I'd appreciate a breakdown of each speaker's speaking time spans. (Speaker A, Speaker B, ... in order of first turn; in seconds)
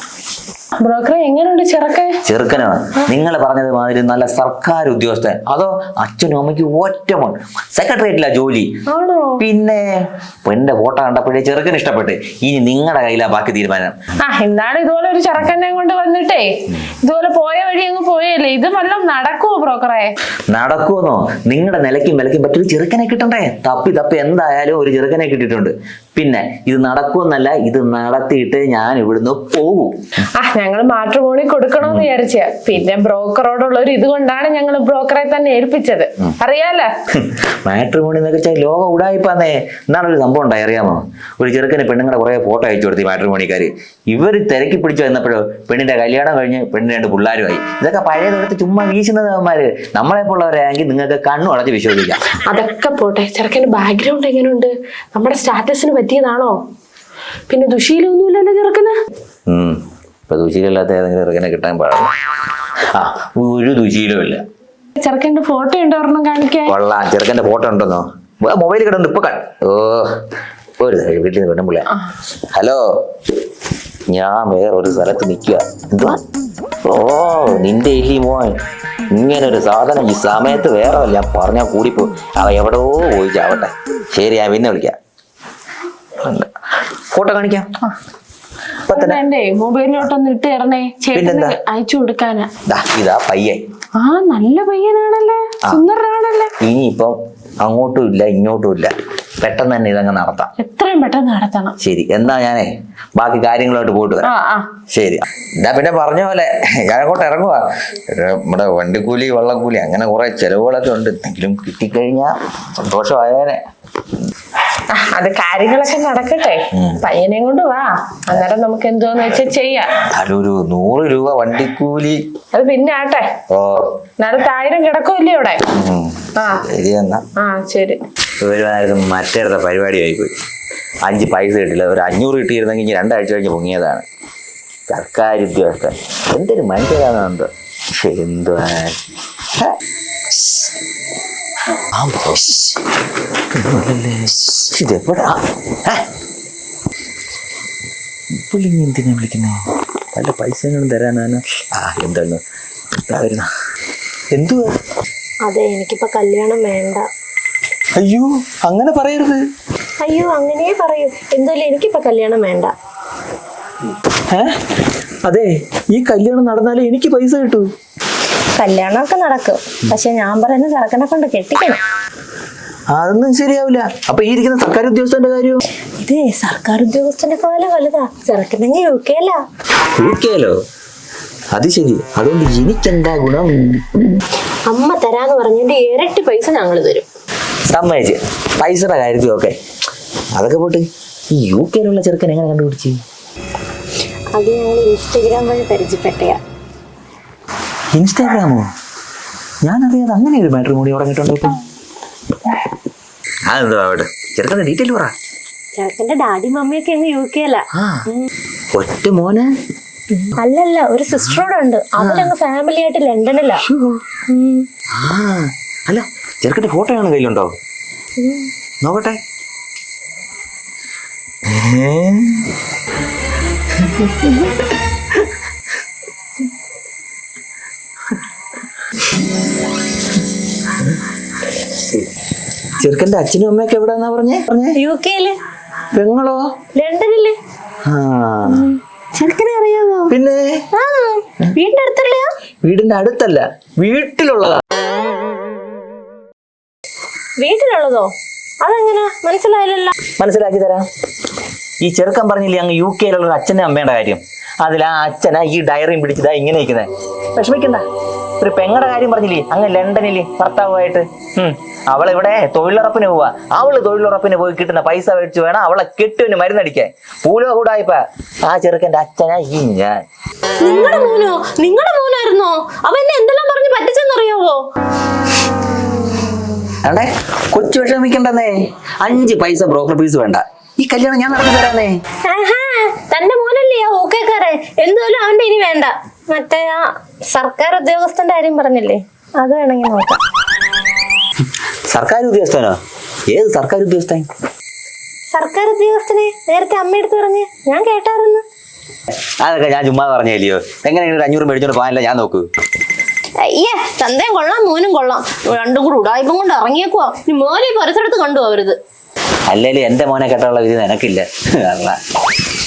Speaker A: 0.8-2.2, 8.9-9.4, 14.2-20.1, 30.4-36.9, 52.4-56.6, 57.5-58.9, 65.0-66.8, 88.9-92.5, 94.0-96.5, 100.6-101.8, 104.2-104.7, 114.9-120.0, 122.5-123.3, 124.2-125.6, 126.4-126.7, 127.4-128.0
Speaker B: 2.2-8.7, 9.4-9.8, 10.4-14.0, 20.5-29.9, 31.8-32.1, 37.1-52.2, 59.5-62.1, 62.9-64.4, 66.7-70.1, 70.8-71.9, 72.5-72.8, 74.1-76.2, 76.8-78.5, 79.1-85.0, 86.2-86.5, 87.1-87.7, 88.8-89.2, 91.1-91.6, 92.7-93.6, 96.6-100.5, 101.8-104.3, 104.9-113.6, 116.7-117.0, 120.1-122.2, 123.5-123.9, 125.7-127.2, 128.4-130.3, 131.0-134.0, 134.9-139.0, 140.3-140.7, 141.9-142.8, 143.5-146.0, 148.4-152.4, 153.1-153.5, 154.3-154.7, 158.0-159.4, 165.2-167.7, 172.9-175.6, 180.0-180.6, 181.5-184.2, 187.7-189.6, 190.3-193.0, 197.9-198.7, 199.6-201.6, 203.5-205.1, 207.7-208.1, 208.7-209.5, 212.0-212.3, 213.6-214.2, 214.9-217.5, 218.8-219.2, 221.5-222.5, 223.8-224.5, 232.8-234.8, 235.9-236.4, 237.9-238.7, 240.1-240.7, 242.6-244.6, 250.2-250.8, 251.8-257.8, 258.4-270.0, 276.8-282.0, 291.9-292.8, 293.3-294.3, 299.4-302.5, 309.5-312.0
Speaker C: 155.4-157.1, 160.0-162.7, 168.6-171.8, 176.0-179.4, 184.7-187.1, 194.3-196.4, 205.8-208.3, 210.2-213.6, 214.3-214.7, 218.2-218.5, 234.8-235.4, 236.8-237.4, 238.5-240.1, 240.7-242.3, 247.4-250.0, 270.6-274.6, 282.2-290.2, 295.3-298.4, 303.4-308.8